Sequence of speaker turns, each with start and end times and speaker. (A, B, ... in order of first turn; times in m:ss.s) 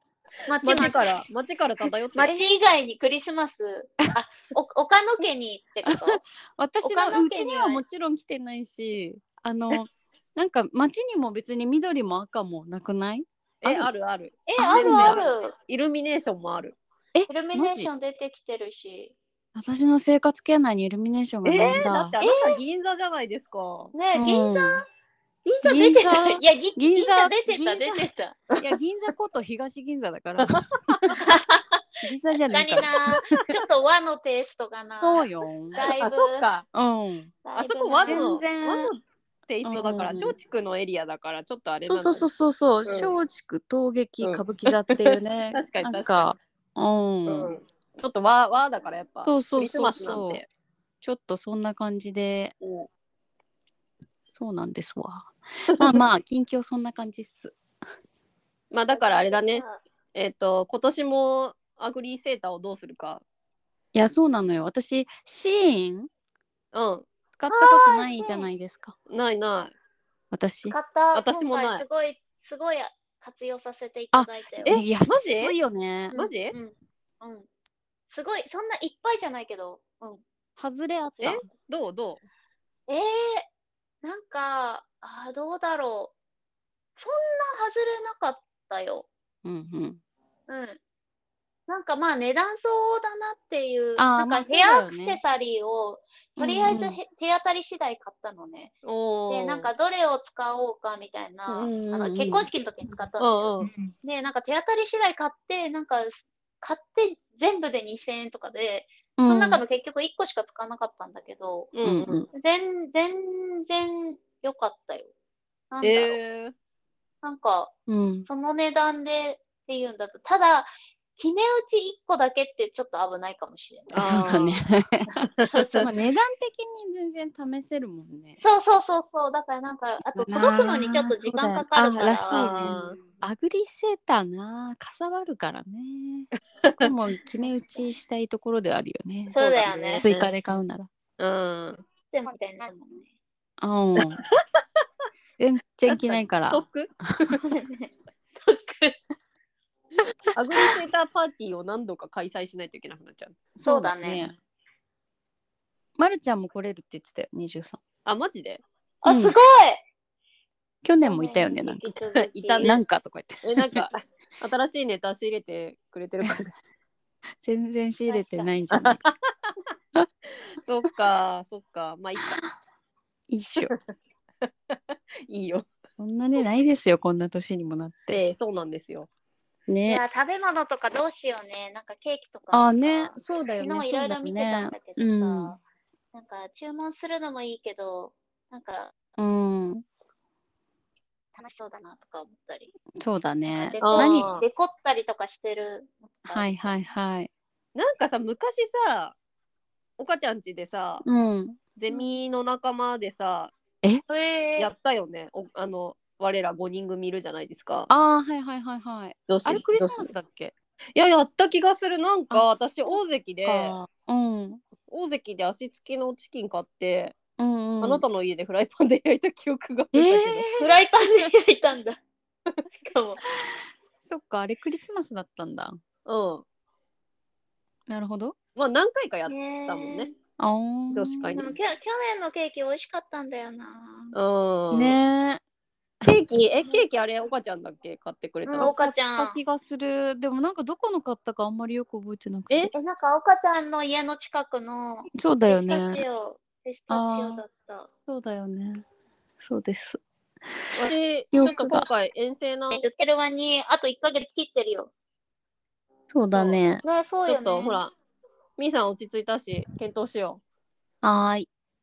0:00.5-0:01.3 A
0:00.6-0:02.3 B
0:02.2-0:06.2 A
0:05.8-0:13.9 C
0:06.8-0:07.8 A
0:13.6-0:16.8 B
0:14.5-0:15.6 A
0:14.6-0:15.2 C
0:17.1-0:17.9 C
0:17.3-0:19.2 A
0:19.6-0:22.2 C
0:21.4-0:23.9 B
0:22.2-0:22.6 A
0:23.9-0:24.8 A
0:24.2-0:24.8 C
0:25.4-0:28.4 A
0:25.6-0:28.1 C
0:28.6-0:31.2 C
0:30.4-0:31.2 B
0:31.2-0:31.8 A
0:32.0-0:32.9 C
0:32.5-0:36.5 A
0:33.1-0:33.4 B
0:35.0-0:35.8 C
0:36.0-0:36.7 B
0:36.7-0:37.4 C
0:37.4-0:38.3 A
0:37.6-0:42.3 B
0:38.1-0:38.9 C
0:39.6-0:40.4 C
0:41.9-0:47.5 C
0:42.9-0:43.1 B
0:44.2-0:46.3 B
0:47.3-0:50.5 B
0:49.2-0:50.4 C
0:51.0-0:52.5 C
0:52.6-0:52.9 B
0:54.3-0:57.6 C
0:55.7-0:56.0 B
0:58.7-1:03.2 B
0:59.0-0:59.8 A
1:04.0-1:06.1 C
1:06.7-1:07.1 B
1:07.4-1:09.0 C
1:07.5-1:08.5 A
1:09.1-1:09.7 B
1:10.3-1:10.8 C
1:10.7-1:14.8 A
1:11.1-1:11.8 B
1:14.1-1:16.2 C
1:14.6-1:15.6 B
1:16.1-1:17.5 A
1:16.1-1:16.6 B
1:18.1-1:20.2 A
1:20.6-1:21.4 C
1:21.2-1:21.4 A
1:21.2-1:22.2 B
1:22.9-1:23.5 A
1:24.0-1:26.1 A
1:27.0-1:29.1 A
1:29.4-1:30.0 C
1:30.5-1:30.8 A
1:31.7-1:38.7 A
1:34.0-1:35.2 C
1:36.4-1:37.0 C
1:38.8-1:39.7 B
1:39.3-1:43.5 A
1:41.5-1:42.5 C
1:43.2-1:43.7 B
1:44.0-1:51.7 A
1:49.2-1:49.6 C
1:51.7-1:52.2 B
1:51.8-1:52.3 C
1:52.3-1:55.1 A
1:55.7-1:56.2 A
1:55.8-1:56.5 B
1:57.2-1:57.7 A
1:57.9-1:58.3 C
1:58.3-2:04.4 A
2:03.9-2:04.6 B
2:04.0-2:05.2 C
2:05.2-2:05.8 B
2:05.4-2:05.9 A
2:05.8-2:08.4 C
2:08.4-2:13.1 A
2:10.1-2:19.4 C
2:12.3-2:13.0 B
2:16.6-2:16.9 B
2:19.3-2:20.1 A
2:19.3-2:20.3 B
2:20.0-2:20.9 C
2:21.2-2:21.8 B
2:22.1-2:23.1 A
2:23.6-2:24.2 C
2:25.4-2:26.6 C
2:25.9-2:27.4 B
2:27.4-2:29.0 A
2:30.3-2:33.4 B
2:33.6-2:34.4 C
2:33.6-2:34.2 A
2:36.0-2:37.8 C
2:38.1-2:38.6 B
2:39.0-2:39.8 A
2:39.1-2:39.4 C
2:40.8-2:42.0 C
2:41.0-2:42.8 A
2:42.2-2:42.8 B
2:42.6-2:43.9 C
2:43.5-2:46.5 B
2:47.4-2:49.0 C
2:48.1-2:48.5 A
2:48.7-2:49.1 B
2:50.6-2:52.4 B
2:53.3-2:53.7 C
2:54.4-2:55.7 B
2:56.0-2:58.2 C
2:58.1-2:59.1 B
2:59.7-3:00.0 C
2:59.9-3:05.6 A
3:02.5-3:05.5 C
3:06.1-3:09.0 A
3:09.2-3:09.8 C
3:11.4-3:12.7 A
3:13.0-3:14.3 C
3:13.5-3:16.5 A
3:13.8-3:14.4 B
3:16.3-3:17.3 C
3:17.8-3:19.2 B
3:20.0-3:21.0 B
3:21.0-3:21.6 C
3:21.8-3:23.5 B
3:24.1-3:24.7 A
3:24.6-3:27.9 B
3:27.9-3:30.5 C
3:29.3-3:30.1 B
3:31.0-3:33.8 B
3:33.4-3:34.6 C
3:34.9-3:37.2 B
3:37.4-3:38.0 C
3:37.8-3:40.5 B
3:39.9-3:40.7 C
3:40.6-3:42.0 A
3:42.7-3:43.2 A
3:44.0-3:45.8 C
3:46.1-3:46.4 B
3:47.9-3:48.4 C
3:48.6-3:50.1 B
3:49.3-3:50.1 A
3:50.4-3:51.4 C
3:50.9-3:51.5 B
3:51.3-3:54.2 A
3:54.1-3:55.0 B
3:54.7-3:55.4 C
3:56.0-3:56.3 C
3:56.0-3:58.7 B
3:58.5-3:59.4 A
3:58.6-4:02.7 C
4:02.7-4:07.9 A
4:05.2-4:06.0 C
4:06.9-4:07.4 C
4:08.1-4:08.8 C
4:09.4-4:10.0 C
4:10.7-4:11.9 C
4:10.8-4:12.8 B
4:12.7-4:14.9 A
4:16.1-4:16.8 C
4:16.3-4:16.6 B
4:16.8-4:17.8 A
4:17.3-4:17.9 B
4:18.6-4:20.4 B
4:21.0-4:21.5 C